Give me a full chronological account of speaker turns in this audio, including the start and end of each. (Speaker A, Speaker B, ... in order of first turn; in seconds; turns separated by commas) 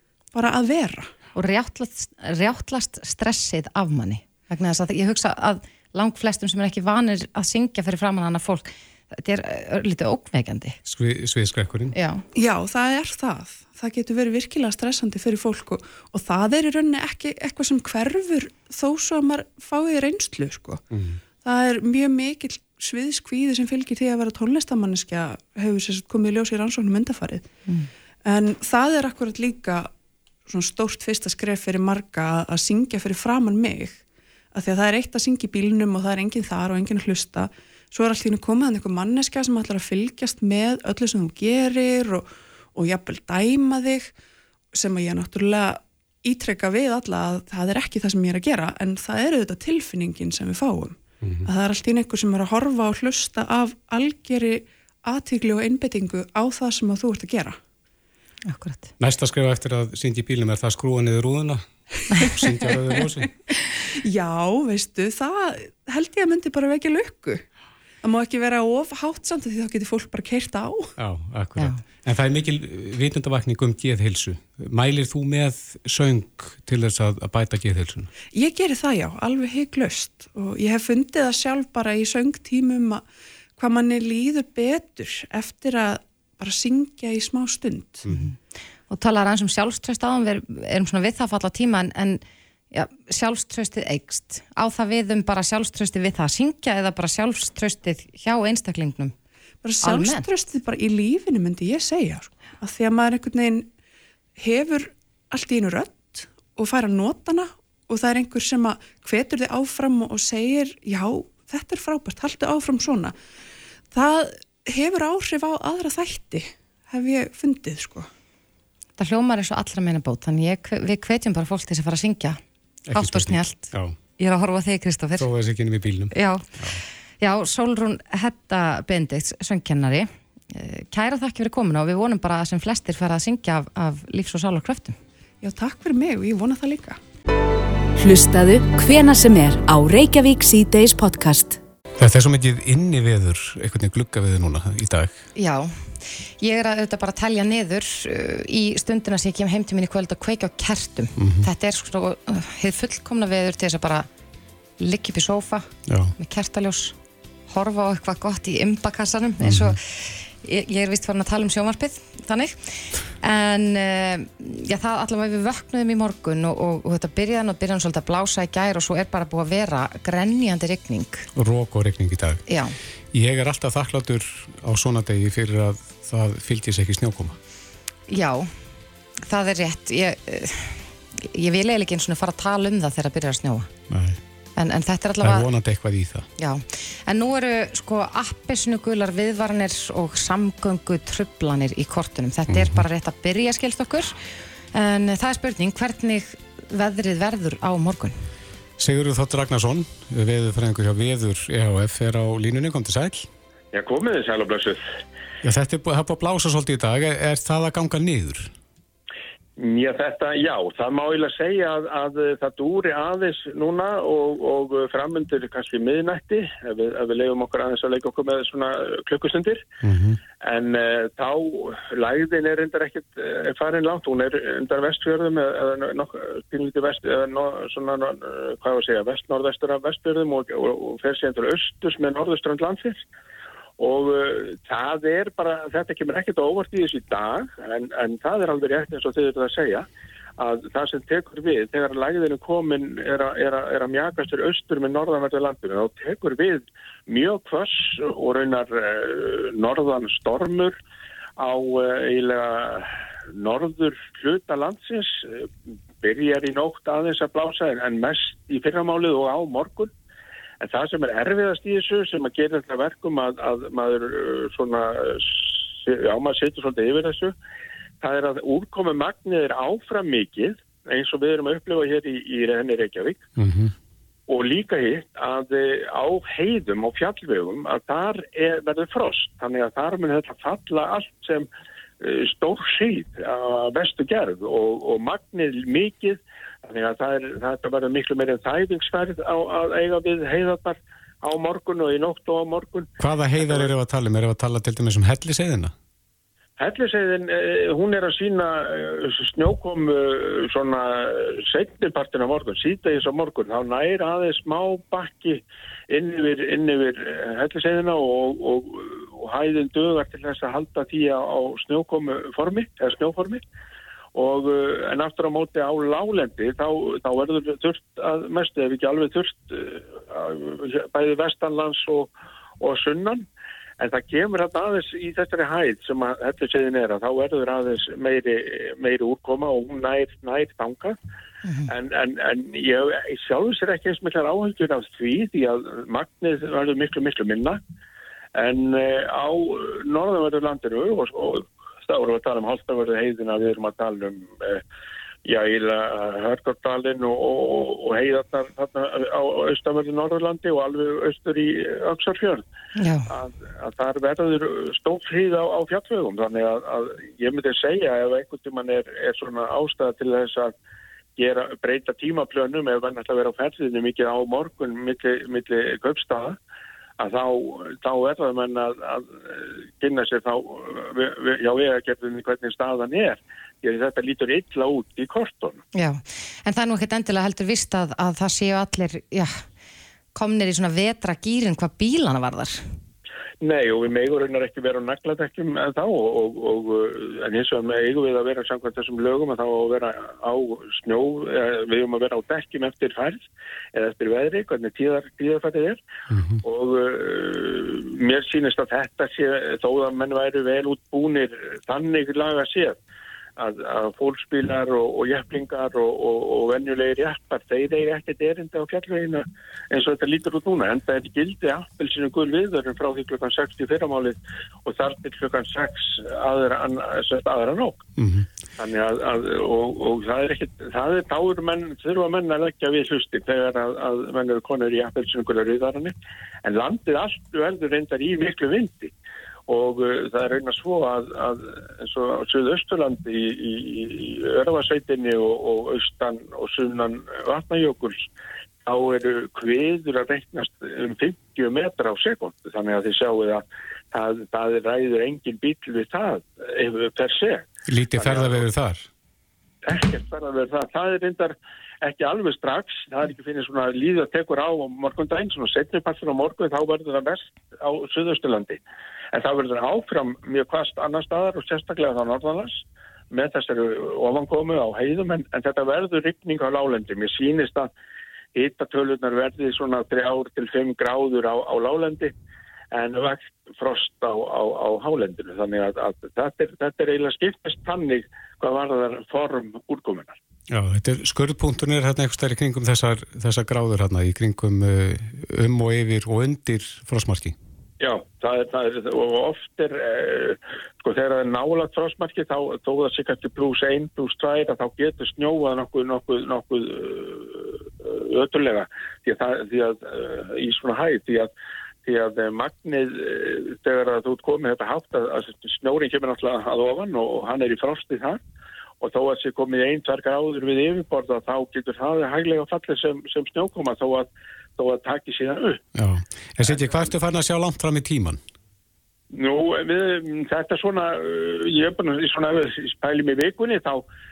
Speaker A: 0.3-1.1, Speaker B: 1.3-10.8, Speaker C: 10.8-11.9, Speaker B: 11.9-12.2, Speaker A: 12.3-20.8, Speaker C: 20.9-21.2, Speaker A: 21.4-27.5, Speaker A: 28.2-29.9, Speaker A: 30.4-34.0, Speaker A: 34.5-44.1, Speaker A: 44.7-57.6, Speaker C: 51.2-51.5, Speaker B: 58.5-58.9, Speaker C: 59.0-63.3, Speaker A: 62.4-63.2, Speaker A: 64.0-67.4, Speaker A: 68.0-70.9, Speaker C: 71.0-78.1, Speaker A: 78.3-83.0, Speaker A: 83.6-88.0, Speaker B: 88.9-99.1, Speaker A: 99.6-103.7, Speaker B: 99.8-100.2, Speaker A: 104.4-113.1, Speaker A: 113.9-118.1, Speaker B: 119.0-122.4, Speaker C: 122.9-124.0, Speaker B: 122.9-125.3, Speaker C: 125.2-126.8, Speaker B: 126.1-135.0, Speaker A: 135.4-137.0, Speaker D: 138.0-141.6, Speaker C: 142.0-145.2, Speaker B: 145.3-154.1, Speaker C: 151.2-151.5, Speaker B: 154.8-157.0, Speaker C: 155.9-156.1, Speaker B: 157.5-171.3, Speaker C: 159.4-159.7, Speaker C: 171.3-172.4, Speaker B: 172.5-172.7, Speaker C: 173.1-177.4, Speaker B: 178.1-178.5, Speaker B: 179.2-183.7, Speaker C: 183.9-184.2, Speaker B: 184.6-185.5, Speaker C: 185.2-186.3, Speaker B: 186.4-194.2, Speaker C: 192.5-192.8, Speaker B: 194.7-198.3, Speaker C: 198.8-203.3, Speaker E: 203.7-204.8, Speaker C: 205.4-208.5, Speaker E: 209.6-219.6, Speaker C: 219.8-220.2, Speaker E: 220.4-233.0, Speaker E: 233.8-239.8, Speaker E: 240.4-250.7, Speaker E: 251.4-255.5, Speaker E: 256.0-259.9, Speaker E: 260.6-267.3, Speaker E: 268.0-273.2, Speaker C: 273.4-273.7, Speaker E: 274.3-281.5, Speaker E: 282.0-293.7, Speaker C: 293.0-295.7, Speaker E: 296.6-313.4, Speaker E: 314.1-323.2, Speaker E: 323.8-331.0, Speaker E: 331.6-337.6, Speaker E: 338.4-344.6, Speaker E: 345.2-352.4, Speaker B: 352.8-353.1, Speaker E: 353.1-360.6, Speaker E: 361.2-366.4, Speaker E: 367.0-375.6, Speaker B: 375.7-379.4, Speaker B: 380.1-382.6, Speaker E: 383.4-395.8, Speaker C: 396.1-396.4, Speaker E: 396.4-402.8, Speaker E: 403.4-417.8, Speaker C: 418.0-418.3, Speaker E: 418.6-425.9, Speaker E: 426.4-428.9, Speaker E: 429.5-438.1, Speaker E: 438.6-448.4, Speaker C: 447.7-448.9, Speaker E: 449.6-458.6, Speaker E: 459.1-467.7, Speaker E: 468.3-472.1, Speaker E: 472.7-480.2, Speaker C: 480.5-487.4, Speaker E: 487.8-501.3, Speaker E: 501.8-508.2, Speaker E: 508.8-515.6, Speaker C: 515.7-518.2, Speaker E: 516.4-516.9, Speaker E: 519.1-523.8